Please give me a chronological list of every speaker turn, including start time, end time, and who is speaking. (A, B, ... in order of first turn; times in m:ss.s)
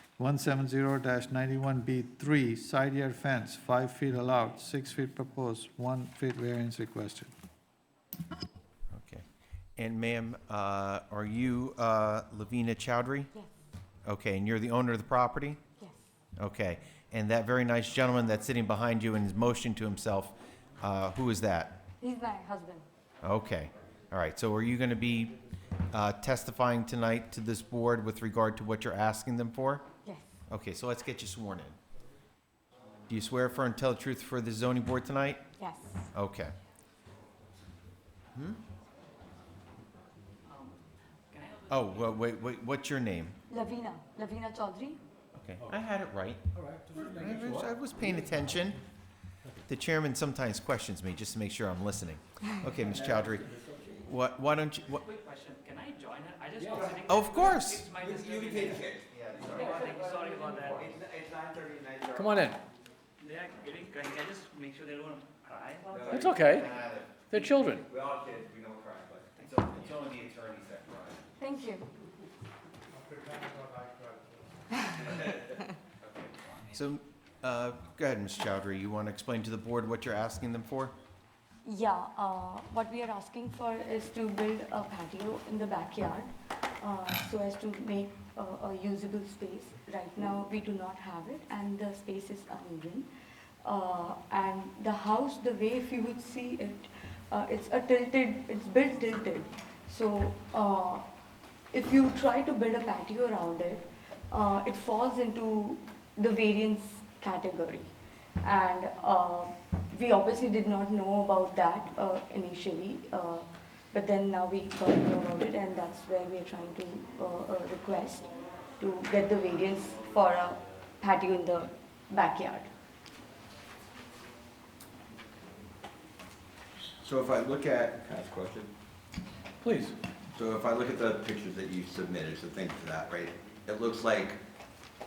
0:00.2-0:07.3 A
0:08.9-0:09.2 B
0:09.8-0:13.3 B
0:14.0-0:15.6 B
0:16.4-0:21.8 B
0:22.0-0:22.8 C
0:23.2-0:25.4 B
0:25.9-0:29.8 B
0:30.0-0:30.3 C
0:30.5-0:31.8 B
0:33.1-0:35.5 B
0:35.6-0:36.1 C
0:36.1-0:36.5 B
0:41.3-0:41.8 D
0:41.7-0:43.4 B
0:43.5-0:45.0 C
0:45.4-0:46.4 B
0:46.9-0:48.8 B
0:49.7-0:55.1 B
0:55.1-0:58.8 D
0:56.6-0:57.1 E
0:57.0-0:57.9 B
0:57.9-1:02.5 E
0:59.1-0:59.9 B
0:59.6-1:00.8 D
1:02.2-1:02.6 F
1:03.2-1:06.1 D
1:05.9-1:06.7 E
1:06.1-1:06.7 F
1:06.5-1:07.2 B
1:07.3-1:07.8 F
1:07.6-1:10.0 E
1:09.4-1:11.2 B
1:11.4-1:11.9 C
1:15.0-1:15.4 E
1:16.0-1:20.9 B
1:21.6-1:33.1 C
1:33.6-1:41.0 C
1:41.7-1:47.9 C
1:48.4-2:02.7 C
2:07.0-2:08.7 E
2:09.6-2:10.0 F
2:10.3-2:14.4 E